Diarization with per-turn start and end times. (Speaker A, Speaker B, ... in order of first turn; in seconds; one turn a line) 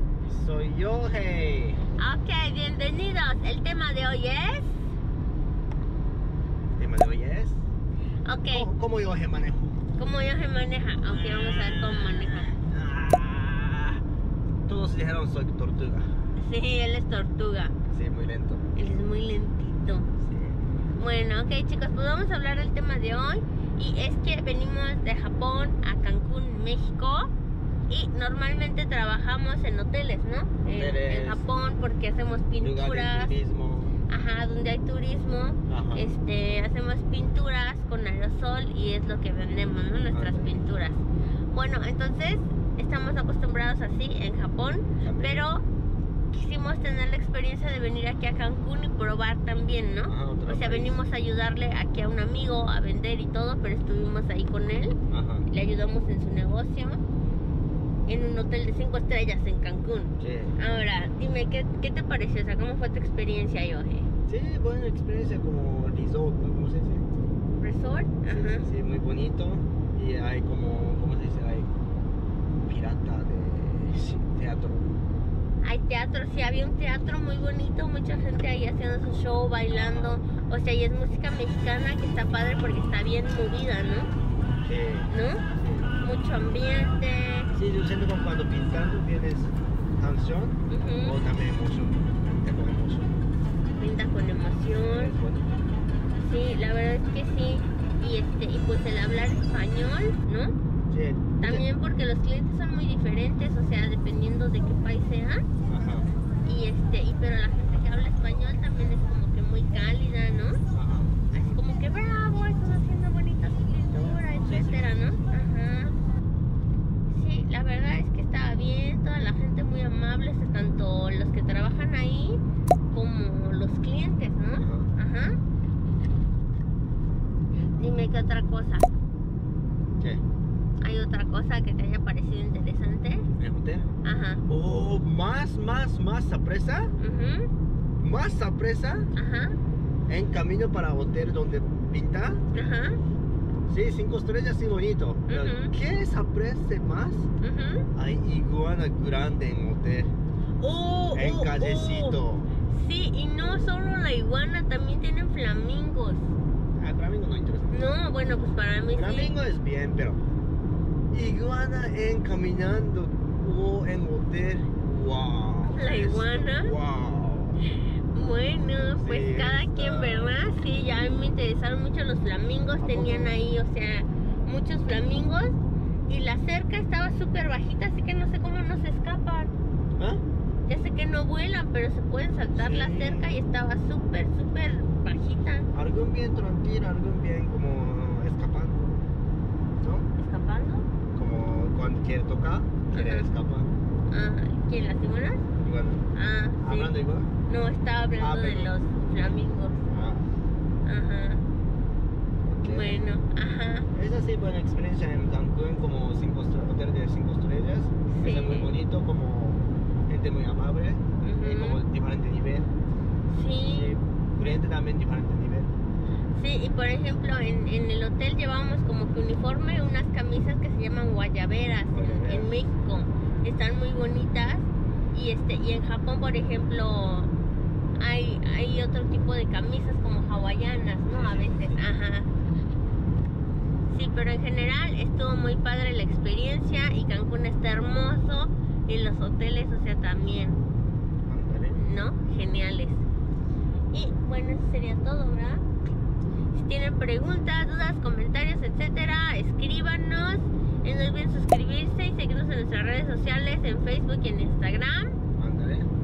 Speaker A: 0.2-1.8
Speaker B: 2.0-4.8
Speaker A: 6.7-7.6
Speaker B: 8.2-8.7
Speaker A: 8.5-9.8
Speaker B: 9.9-12.5
Speaker A: 11.1-14.0
Speaker A: 14.7-16.1
Speaker B: 16.4-17.7
Speaker A: 17.9-18.6
Speaker B: 18.7-20.1
Speaker A: 20.3-20.6
Speaker B: 21.0-27.3
Speaker B: 27.9-33.3
Speaker A: 30.6-31.4
Speaker A: 32.6-33.9
Speaker B: 34.1-45.6
Speaker A: 35.7-36.1
Speaker A: 40.1-40.6
Speaker A: 45.0-45.5
Speaker B: 46.3-55.0
Speaker A: 50.1-51.0
Speaker A: 55.1-55.5
Speaker B: 55.5-57.0
Speaker B: 58.1-64.1
Speaker A: 60.2-60.5
Speaker A: 64.3-67.0
Speaker B: 67.6-68.7
Speaker A: 68.3-71.7
Speaker A: 72.5-75.0
Speaker B: 75.6-84.1
Speaker A: 79.7-80.2
Speaker A: 84.6-85.9
Speaker B: 85.1-85.4
Speaker B: 86.0-87.5
Speaker A: 87.5-93.2
Speaker B: 90.7-91.1
Speaker B: 93.8-95.1
Speaker A: 94.7-95.5
Speaker B: 96.2-100.5
Speaker A: 100.9-101.7
Speaker B: 101.4-105.5
Speaker A: 105.7-106.1
Speaker B: 106.4-110.6
Speaker A: 110.7-111.2
Speaker B: 111.3-115.9
Speaker A: 114.4-115.1
Speaker B: 117.1-125.4
Speaker A: 124.5-124.9
Speaker B: 127.8-128.9
Speaker B: 130.8-133.3
Speaker A: 133.4-133.9
Speaker B: 134.0-134.4
Speaker A: 134.5-136.9
Speaker B: 137.0-137.5
Speaker A: 138.0-139.1
Speaker B: 139.1-139.6
Speaker A: 140.1-142.4
Speaker B: 142.5-143.0
Speaker A: 143.7-147.3
Speaker B: 145.3-145.7
Speaker B: 147.4-147.9
Speaker A: 147.9-150.1
Speaker B: 150.6-152.2
Speaker A: 151.1-152.5
Speaker B: 152.7-156.3
Speaker A: 156.8-157.9
Speaker B: 157.7-159.3
Speaker A: 158.9-160.2
Speaker A: 161.1-167.6
Speaker B: 165.6-166.7
Speaker B: 168.1-179.5
Speaker A: 168.8-170.4
Speaker A: 172.8-173.3
Speaker A: 180.0-180.2
Speaker B: 180.7-185.7
Speaker A: 182.5-183.3
Speaker A: 185.7-189.0
Speaker A: 189.8-190.1
Speaker B: 190.2-190.9
Speaker A: 191.1-193.7
Speaker B: 192.9-193.3
Speaker B: 194.1-195.4
Speaker A: 195.6-196.1
Speaker B: 196.1-196.9
Speaker A: 196.6-197.3
Speaker B: 197.5-199.9
Speaker A: 198.2-198.7
Speaker A: 199.9-200.3
Speaker B: 200.8-201.4
Speaker A: 202.4-203.1
Speaker B: 202.6-203.9
Speaker A: 203.9-212.7
Speaker B: 208.1-208.7
Speaker B: 211.2-211.8
Speaker B: 213.3-213.9
Speaker A: 213.7-215.7
Speaker B: 216.3-227.3
Speaker A: 221.9-222.5
Speaker B: 228.0-232.3
Speaker A: 231.1-231.9
Speaker B: 233.9-240.6
Speaker A: 241.2-241.8
Speaker B: 241.7-243.0
Speaker B: 243.9-245.6
Speaker B: 246.5-255.2
Speaker A: 255.4-255.9